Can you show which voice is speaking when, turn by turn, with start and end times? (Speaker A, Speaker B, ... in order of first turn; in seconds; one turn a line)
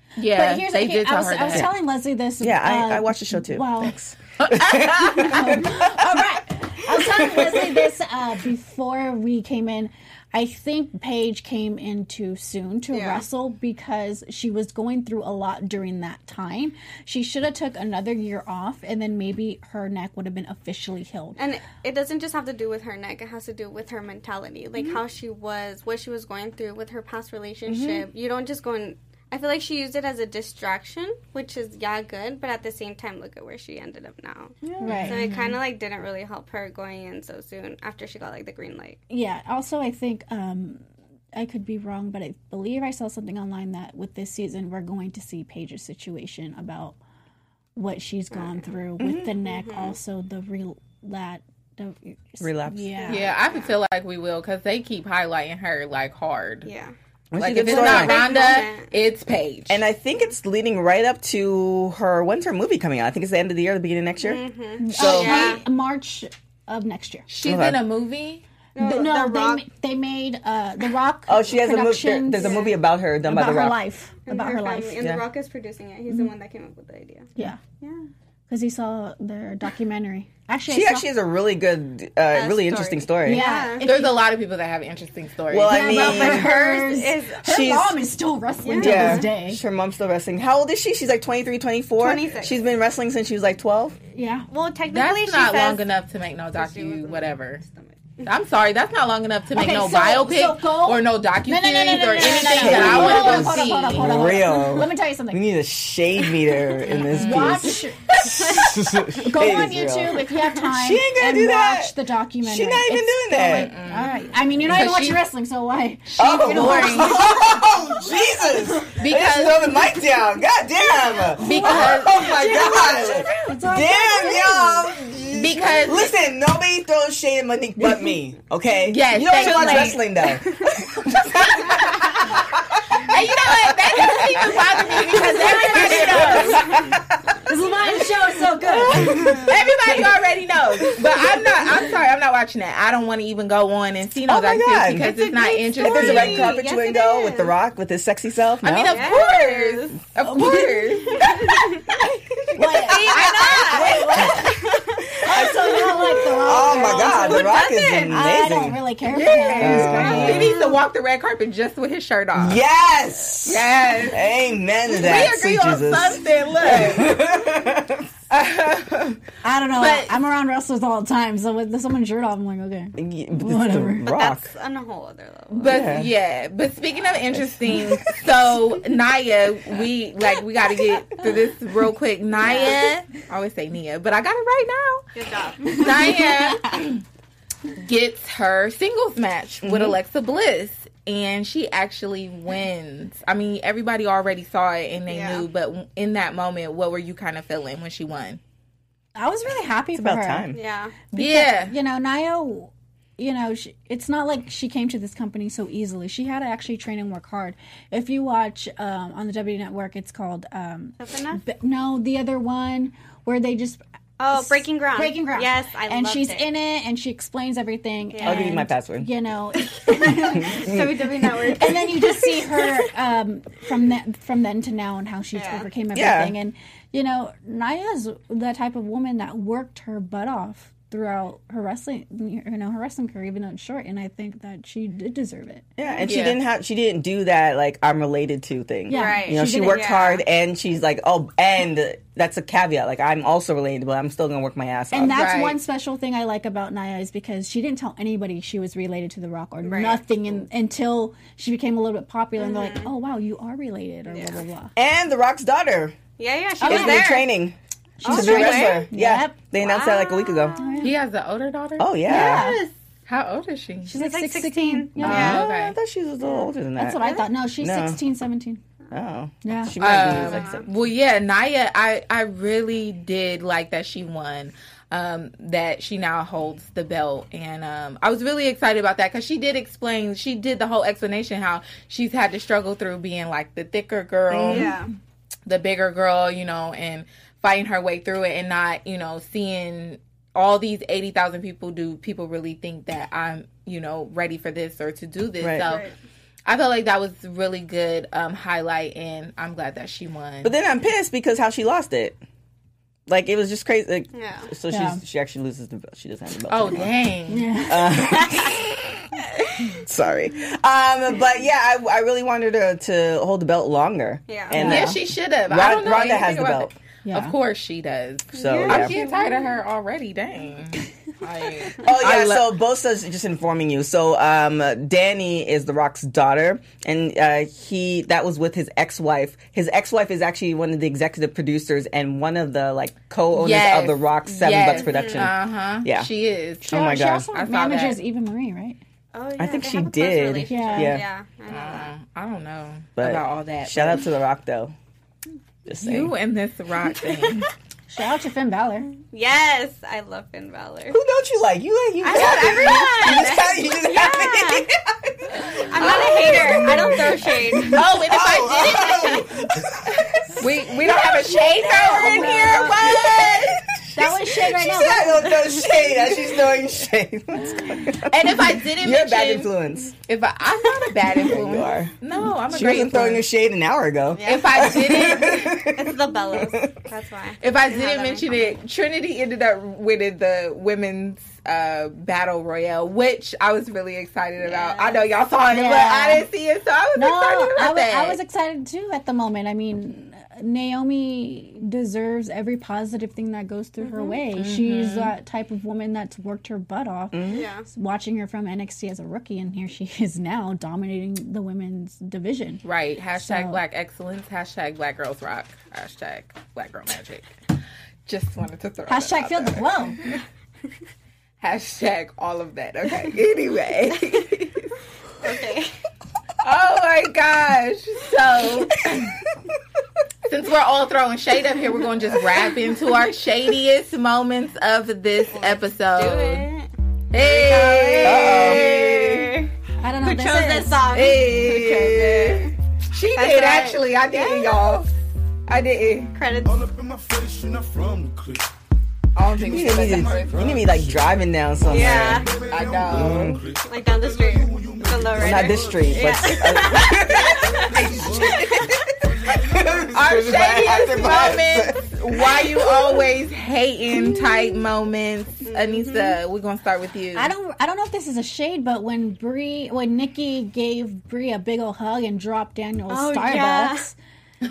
Speaker A: 0.2-1.7
Speaker B: 0.3-4.0
Speaker C: 2.4-6.3
Speaker A: 4.4-5.3
Speaker B: 5.0-21.4
Speaker C: 6.8-7.8
Speaker D: 12.9-13.2
Speaker D: 21.4-39.0
Speaker C: 27.7-28.1
Speaker C: 34.6-35.0
Speaker B: 34.8-35.2
Speaker A: 34.9-35.6
Speaker B: 39.1-47.0
Speaker B: 47.8-53.3
Speaker D: 48.3-48.7
Speaker C: 49.0-49.3
Speaker D: 49.4-50.0
Speaker C: 52.4-53.1
Speaker D: 53.0-53.7
Speaker A: 53.1-56.7
Speaker D: 56.6-56.9
Speaker C: 57.3-58.4
Speaker A: 57.4-59.8
Speaker D: 57.6-58.9
Speaker B: 57.7-58.5
Speaker C: 59.7-65.6
Speaker D: 64.2-65.6
Speaker B: 64.8-67.2
Speaker A: 67.3-68.4
Speaker C: 67.4-67.8
Speaker D: 68.7-69.6
Speaker B: 68.8-72.6
Speaker C: 71.3-73.8
Speaker D: 72.4-72.7
Speaker B: 73.2-75.0
Speaker D: 74.2-78.1
Speaker B: 78.5-81.1
Speaker C: 80.7-83.4
Speaker D: 82.3-83.8
Speaker B: 83.2-84.2
Speaker A: 83.8-85.7
Speaker C: 85.5-86.8
Speaker B: 85.7-89.6
Speaker D: 85.7-87.4
Speaker C: 87.4-88.0
Speaker D: 88.6-89.3
Speaker C: 88.8-94.0
Speaker D: 92.0-92.6
Speaker B: 94.1-94.5
Speaker D: 94.5-95.9
Speaker A: 94.9-97.6
Speaker D: 96.5-98.3
Speaker A: 98.2-104.1
Speaker B: 99.5-105.4
Speaker C: 102.4-113.7
Speaker A: 107.0-107.7
Speaker B: 107.1-108.0
Speaker D: 108.2-108.8
Speaker B: 109.1-117.7
Speaker A: 113.5-114.1
Speaker A: 114.7-115.2
Speaker A: 116.1-117.2
Speaker C: 116.2-133.0
Speaker A: 119.0-119.6
Speaker B: 121.4-124.9
Speaker A: 121.4-122.3
Speaker D: 122.1-123.5
Speaker A: 125.3-126.1
Speaker A: 128.9-130.1
Speaker B: 129.4-129.9
Speaker A: 131.6-132.4
Speaker A: 133.0-136.7
Speaker C: 133.5-134.6
Speaker B: 135.1-136.7
Speaker D: 135.3-136.9
Speaker C: 135.7-137.2
Speaker B: 137.4-139.3
Speaker D: 138.7-139.5
Speaker A: 138.8-146.6
Speaker C: 138.9-140.1
Speaker C: 144.3-145.1
Speaker D: 144.9-147.5
Speaker C: 145.8-149.1
Speaker A: 148.6-151.6
Speaker D: 148.9-150.0
Speaker B: 150.2-150.9
Speaker D: 151.1-152.0
Speaker B: 152.5-154.5
Speaker A: 152.7-154.4
Speaker D: 152.9-158.2
Speaker C: 155.2-158.8
Speaker B: 155.2-157.5
Speaker A: 157.1-158.1
Speaker B: 158.1-160.5
Speaker A: 159.1-162.6
Speaker C: 159.6-160.5
Speaker D: 160.3-160.7
Speaker C: 162.3-168.1
Speaker A: 163.4-164.2
Speaker A: 164.9-167.2
Speaker A: 168.3-169.2
Speaker B: 169.4-174.1
Speaker A: 169.8-170.1
Speaker C: 172.9-174.5
Speaker D: 174.1-175.9
Speaker A: 175.6-185.1
Speaker C: 175.6-176.1
Speaker C: 177.3-178.3
Speaker D: 182.4-182.9
Speaker D: 185.1-186.4
Speaker A: 185.7-187.0
Speaker A: 187.8-198.4
Speaker C: 189.6-190.0
Speaker D: 195.1-195.4
Speaker B: 199.2-200.5
Speaker C: 199.9-200.6
Speaker D: 200.5-201.0
Speaker B: 201.1-213.8
Speaker A: 201.1-201.7
Speaker D: 211.0-211.4
Speaker D: 214.2-216.5
Speaker B: 214.3-220.7
Speaker D: 218.1-218.6
Speaker C: 218.2-219.1
Speaker D: 219.8-222.6
Speaker C: 220.3-221.7
Speaker B: 221.6-236.2
Speaker D: 225.3-225.7
Speaker C: 225.9-226.3
Speaker C: 235.8-245.2
Speaker A: 236.1-236.4
Speaker B: 238.9-240.0
Speaker D: 238.9-240.2
Speaker B: 244.9-254.7
Speaker A: 245.1-245.6
Speaker D: 249.6-250.4
Speaker D: 252.4-252.9
Speaker D: 254.1-254.4
Speaker C: 254.8-256.0
Speaker D: 256.2-257.3
Speaker B: 256.6-257.2
Speaker C: 256.6-260.6
Speaker B: 258.0-259.4
Speaker D: 258.0-258.9
Speaker D: 259.6-260.9
Speaker B: 260.6-260.9
Speaker A: 260.8-261.9
Speaker C: 261.8-262.5
Speaker B: 262.1-262.6
Speaker D: 262.1-262.7
Speaker A: 263.1-263.9
Speaker B: 263.9-265.4
Speaker D: 263.9-265.4
Speaker C: 265.0-267.0
Speaker A: 265.1-265.7
Speaker D: 266.2-267.3
Speaker B: 266.8-268.6
Speaker C: 267.6-268.0
Speaker C: 268.9-270.7
Speaker B: 269.4-269.7
Speaker A: 269.8-284.7
Speaker D: 270.0-270.7
Speaker C: 284.3-284.7
Speaker D: 284.5-284.9
Speaker A: 285.5-295.9
Speaker C: 295.4-295.7
Speaker D: 295.6-295.9
Speaker A: 296.4-300.5
Speaker C: 300.4-302.2
Speaker C: 303.1-306.9
Speaker D: 304.1-304.5
Speaker B: 304.7-305.0
Speaker A: 306.5-307.5
Speaker B: 307.3-308.3
Speaker C: 307.7-316.7
Speaker D: 314.3-314.6
Speaker B: 314.5-315.0
Speaker A: 314.6-322.5
Speaker B: 317.0-317.4
Speaker C: 318.3-319.0
Speaker D: 318.3-319.5
Speaker C: 321.8-336.1
Speaker A: 333.3-336.8
Speaker D: 334.7-335.3
Speaker B: 336.6-338.8
Speaker C: 336.7-337.3
Speaker A: 337.3-338.0
Speaker D: 339.1-341.9
Speaker C: 339.4-341.0
Speaker B: 340.5-341.0
Speaker A: 341.5-344.0
Speaker C: 343.0-344.7
Speaker C: 345.6-346.1
Speaker A: 345.8-347.5
Speaker B: 347.9-348.9
Speaker D: 349.1-351.0
Speaker C: 350.9-369.9
Speaker D: 352.0-354.7
Speaker A: 352.1-353.4
Speaker D: 355.4-357.8
Speaker A: 355.8-356.5
Speaker A: 357.6-359.2
Speaker D: 358.8-359.2
Speaker A: 359.9-363.5
Speaker B: 361.1-362.3
Speaker D: 361.9-363.3
Speaker B: 363.9-365.3
Speaker D: 365.6-366.1
Speaker A: 368.1-369.5
Speaker A: 370.1-373.2
Speaker C: 371.1-371.9
Speaker C: 372.5-376.9
Speaker D: 374.1-378.5
Speaker A: 374.2-375.5
Speaker A: 377.4-388.2
Speaker D: 384.4-385.1
Speaker B: 385.5-386.3
Speaker B: 386.9-402.6
Speaker D: 393.8-394.2
Speaker A: 394.4-395.1
Speaker C: 397.1-397.5
Speaker D: 397.3-397.7
Speaker A: 402.6-407.4
Speaker B: 403.2-403.6
Speaker A: 408.1-409.9
Speaker B: 408.9-410.0
Speaker A: 411.4-414.7
Speaker D: 415.2-415.7
Speaker A: 416.4-419.2
Speaker A: 420.2-426.5
Speaker D: 425.3-432.5
Speaker A: 427.1-429.4
Speaker C: 428.0-428.7
Speaker B: 429.8-430.8
Speaker A: 430.9-434.9
Speaker D: 433.1-434.7
Speaker A: 435.5-436.1
Speaker D: 436.1-436.6
Speaker E: 436.4-438.5
Speaker A: 439.1-440.6
Speaker E: 439.2-451.4
Speaker C: 439.5-442.2
Speaker D: 441.7-442.3
Speaker A: 442.5-443.4
Speaker C: 442.9-443.4
Speaker D: 443.6-448.7
Speaker C: 445.2-448.7
Speaker C: 449.5-452.7
Speaker A: 449.9-457.3
Speaker D: 455.4-456.2
Speaker B: 457.1-464.0
Speaker D: 462.9-463.9